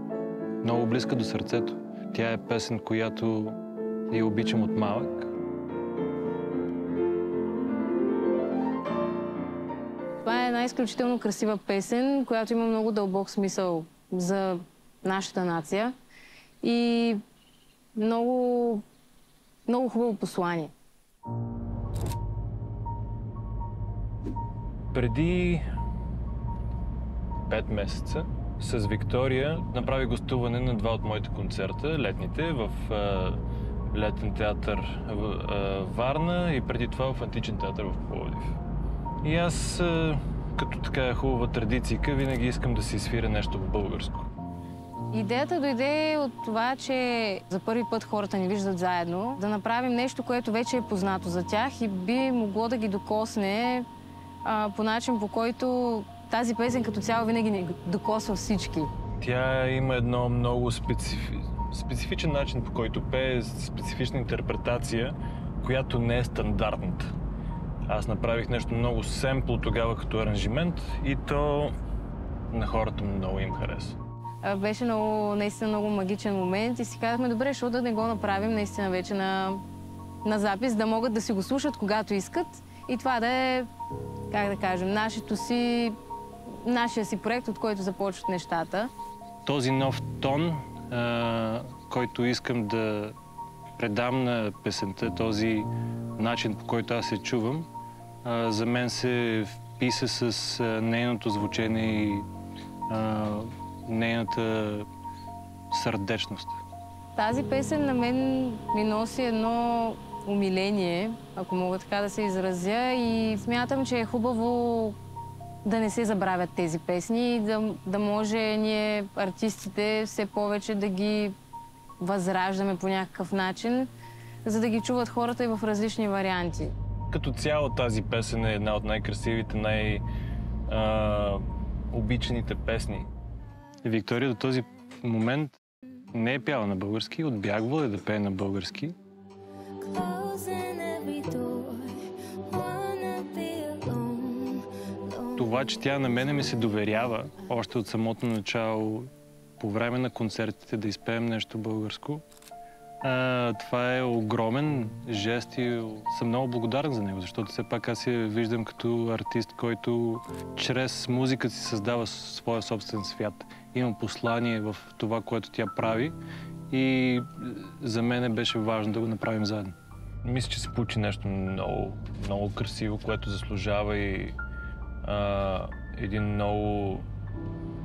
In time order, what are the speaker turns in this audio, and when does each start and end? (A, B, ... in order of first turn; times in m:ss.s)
0:00.6-0:03.6 A
0:04.1-0:05.3 A
0:10.2-0:16.0 B
0:16.6-0:17.2 B
0:18.0-0:18.8 B
0:19.7-0:20.7 B
0:24.9-0:25.6 A
0:27.5-0:38.6 A
0:39.2-0:44.3 A
0:45.1-0:53.9 B
0:54.4-0:58.9 B
0:59.2-1:07.1 A
1:07.9-1:11.7 A
1:12.5-1:14.0 A
1:14.4-1:19.6 B
1:20.2-1:23.7 B
1:24.3-1:26.0 B
1:26.5-1:28.9 B
1:29.5-1:33.2 A
1:33.8-1:37.7 A
1:38.2-1:42.3 A
1:42.9-1:44.9 A
1:45.7-1:46.6 A
1:47.2-1:55.0 B
1:55.6-2:01.4 B
2:02.0-2:03.9 B
2:04.4-2:06.7 B
2:07.1-2:10.0 A
2:10.7-2:13.1 A
2:13.8-2:15.6 A
2:16.1-2:19.0 A
2:19.8-2:25.8 C
2:25.4-2:32.2 A
2:33.0-2:46.2 A
2:46.7-2:54.4 A
2:55.0-2:57.1 A